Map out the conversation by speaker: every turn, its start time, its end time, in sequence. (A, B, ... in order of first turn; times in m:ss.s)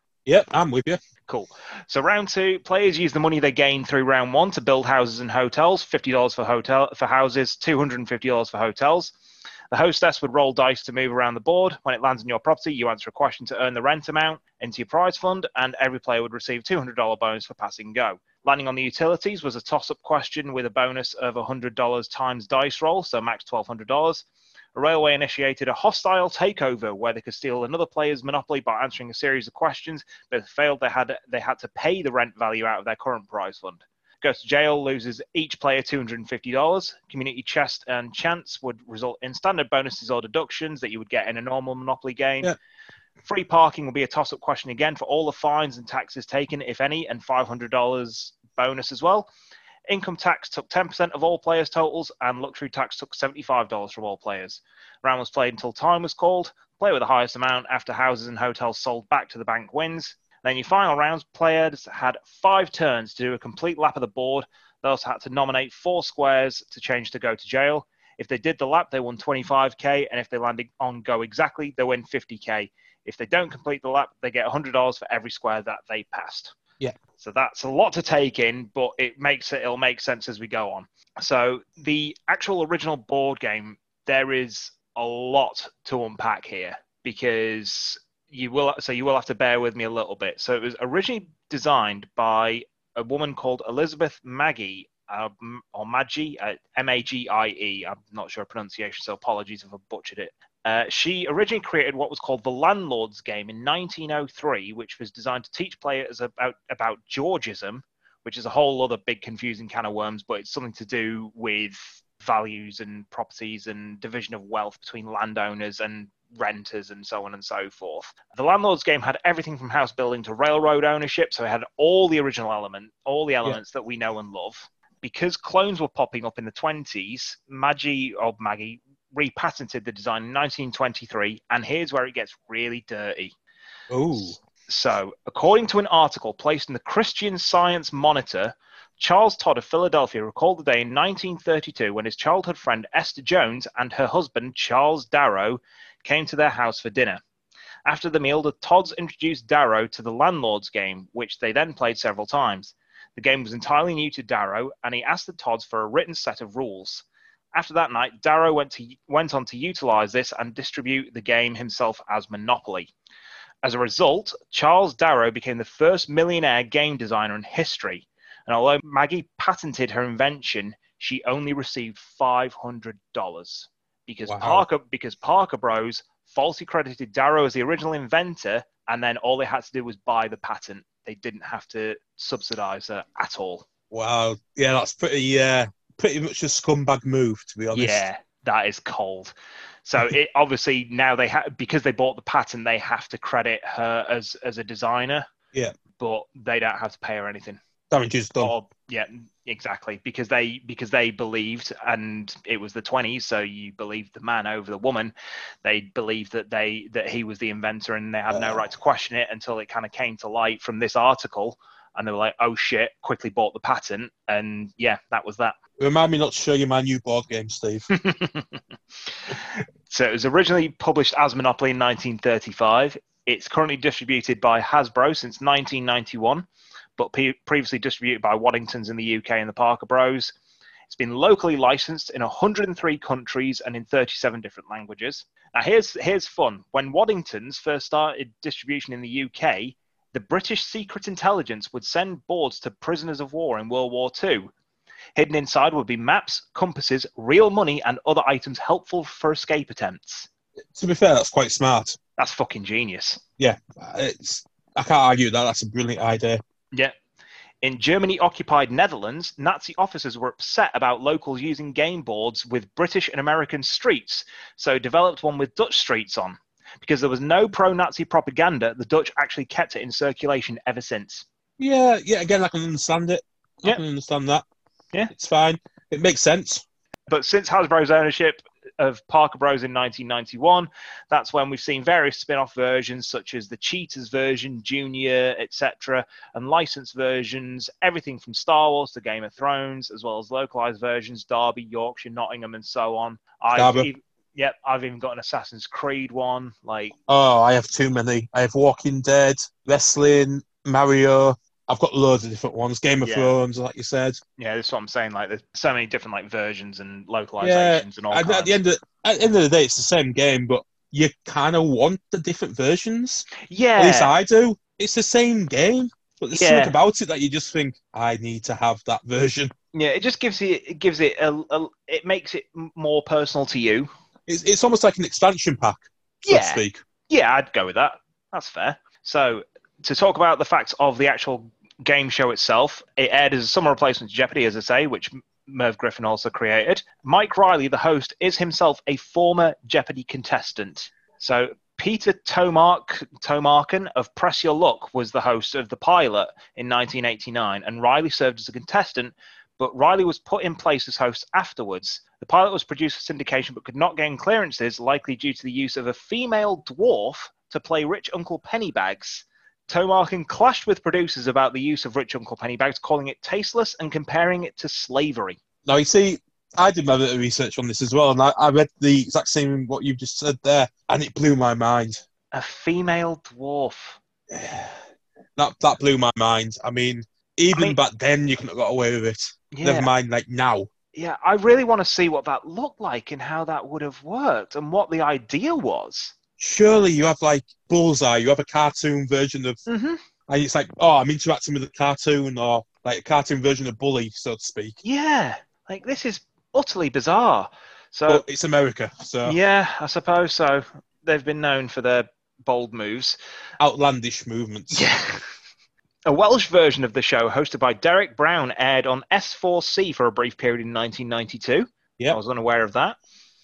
0:00.2-0:01.0 A
0:01.3-0:09.1 B
0:09.7-0:42.5 B
0:43.2-0:49.3 B
0:49.9-1:16.5 B
1:17.2-2:13.3 B
2:13.9-2:14.4 A
2:14.7-2:27.2 B
2:27.8-2:42.9 B
2:43.6-3:03.7 B
2:54.3-2:54.6 A
3:03.9-3:08.0 A
3:07.7-3:09.3 B
3:09.8-3:15.3 B
3:16.0-3:17.6 B
3:17.9-3:18.5 A
3:18.4-3:25.1 B
3:25.6-3:35.6 B
3:28.3-3:28.6 A
3:35.8-3:37.9 A
3:37.9-3:38.6 B
3:39.1-3:50.3 B
3:50.9-4:04.5 B
4:05.1-4:10.3 B
4:10.7-4:12.0 A
4:12.2-4:13.2 B
4:13.4-4:16.4 A
4:17.6-4:31.2 B
4:31.6-4:34.4 A
4:35.1-4:36.6 A
4:37.1-4:56.9 B
4:53.5-4:53.9 A
4:57.1-5:04.2 A
5:03.0-5:03.3 B
5:04.4-5:08.5 B
5:07.4-5:19.5 A
5:13.4-5:14.1 B
5:16.3-5:16.7 B
5:19.7-5:23.9 B
5:24.3-5:26.8 A
5:26.2-6:05.4 B
6:05.6-6:12.0 A
6:12.3-6:14.0 B
6:14.3-6:14.8 A
6:15.4-6:20.7 A
6:17.5-6:17.8 B
6:19.5-6:19.9 B
6:20.9-6:26.2 B
6:26.4-6:29.6 A
6:29.7-6:30.0 B
6:30.3-6:34.8 A
6:34.8-6:38.2 B
6:38.1-6:39.4 A
6:39.2-6:43.2 B
6:43.6-6:44.8 A
6:44.7-6:45.2 B
6:46.0-6:53.0 B